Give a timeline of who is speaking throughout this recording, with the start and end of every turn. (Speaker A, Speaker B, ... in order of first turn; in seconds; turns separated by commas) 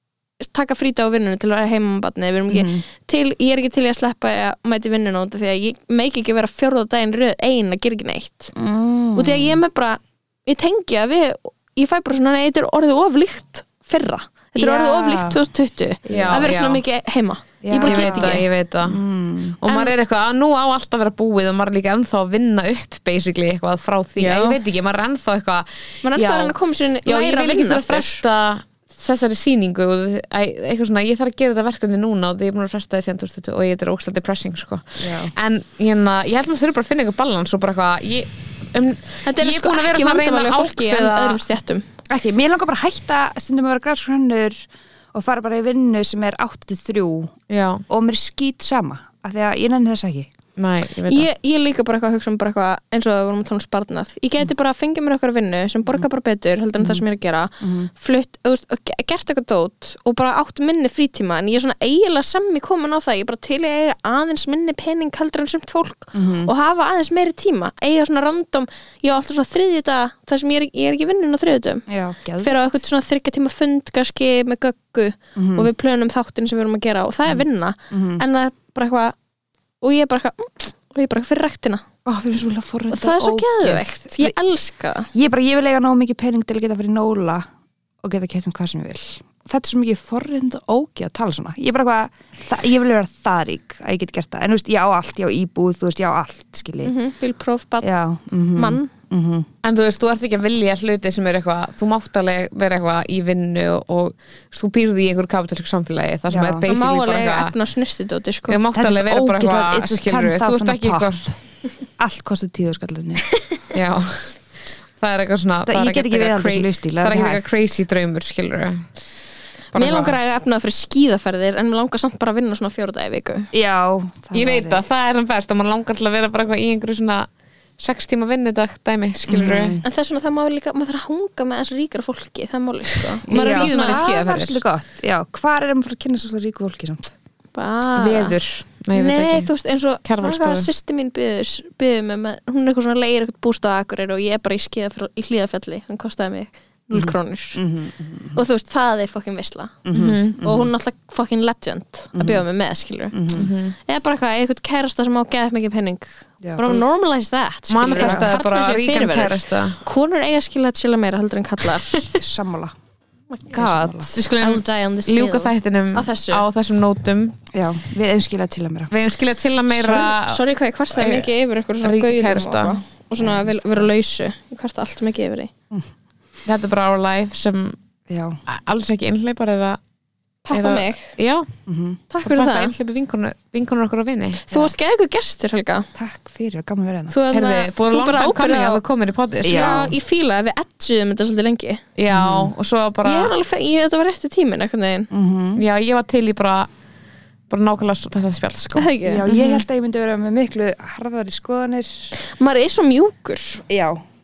Speaker A: 0.4-8.5, Speaker B: 2.5-2.8, Speaker B: 8.6-9.6, Speaker A: 9.2-18.5, Speaker B: 14.6-15.4, Speaker B: 16.1-16.5, Speaker C: 16.1-16.8, Speaker B: 17.6-19.6, Speaker C: 17.8-19.0, Speaker C: 19.6-41.4, Speaker A: 19.7-19.9, Speaker A: 24.2-24.6, Speaker A: 26.0-28.2, Speaker B: 35.0-35.3, Speaker A: 39.2-41.8, Speaker B: 42.1-47.3, Speaker C: 47.5-47.9, Speaker B: 47.9-50.3, Speaker C: 50.6-51.3, Speaker A: 51.1-71.9, Speaker B: 56.8-57.0, Speaker B: 57.6-57.9, Speaker B: 66.1-66.5, Speaker B: 71.9-72.7, Speaker A: 72.4-79.2, Speaker B: 75.4-75.7, Speaker B: 77.3-78.2, Speaker A: 79.8-81.9, Speaker B: 82.0-84.3, Speaker A: 82.9-85.1, Speaker B: 85.1-87.5, Speaker B: 88.0-96.9, Speaker A: 96.8-97.9, Speaker B: 97.8-99.5, Speaker A: 98.6-98.9, Speaker C: 99.6-107.5, Speaker B: 106.3-106.7, Speaker A: 106.7-108.6, Speaker C: 108.5-111.2, Speaker B: 108.8-111.3, Speaker B: 112.0-113.2, Speaker C: 113.7-114.3, Speaker C: 115.0-118.9, Speaker B: 115.7-117.4, Speaker C: 119.7-120.2, Speaker A: 119.7-123.5, Speaker B: 123.5-124.8, Speaker C: 124.3-127.3, Speaker C: 127.8-129.8, Speaker B: 129.3-129.8, Speaker A: 129.8-134.2, Speaker C: 133.3-134.6, Speaker B: 133.3-137.1, Speaker A: 137.5-138.4, Speaker C: 138.0-139.5, Speaker A: 138.9-147.6, Speaker C: 140.1-140.7, Speaker B: 146.9-148.4, Speaker A: 148.3-149.8, Speaker B: 149.8-150.7, Speaker C: 149.9-150.4, Speaker A: 150.4-153.2, Speaker B: 152.2-152.4, Speaker B: 153.1-153.5, Speaker C: 153.3-153.8, Speaker A: 153.9-162.0, Speaker B: 156.4-156.8, Speaker C: 157.7-159.8, Speaker B: 157.9-158.3, Speaker B: 162.2-162.7, Speaker A: 163.3-166.4, Speaker B: 163.5-164.1, Speaker C: 164.2-167.4, Speaker B: 167.5-168.9, Speaker C: 168.9-170.4, Speaker A: 169.7-175.5, Speaker C: 170.9-171.3, Speaker C: 171.8-172.8, Speaker B: 173.2-173.9, Speaker C: 176.5-177.8, Speaker B: 178.1-178.4, Speaker C: 178.5-179.8, Speaker A: 180.5-181.2, Speaker C: 180.5-181.5, Speaker B: 181.7-182.0, Speaker A: 182.1-182.7, Speaker C: 182.2-184.4, Speaker A: 184.5-185.9, Speaker B: 185.9-187.2, Speaker A: 187.1-188.8, Speaker C: 187.3-189.9, Speaker B: 189.4-189.9, Speaker A: 189.4-191.8, Speaker C: 192.0-193.3, Speaker B: 192.1-192.5, Speaker A: 193.0-195.1, Speaker B: 195.1-195.6, Speaker C: 195.6-196.7, Speaker C: 197.5-199.6, Speaker A: 198.8-199.3, Speaker B: 199.1-202.1, Speaker A: 202.2-203.6, Speaker B: 203.7-204.0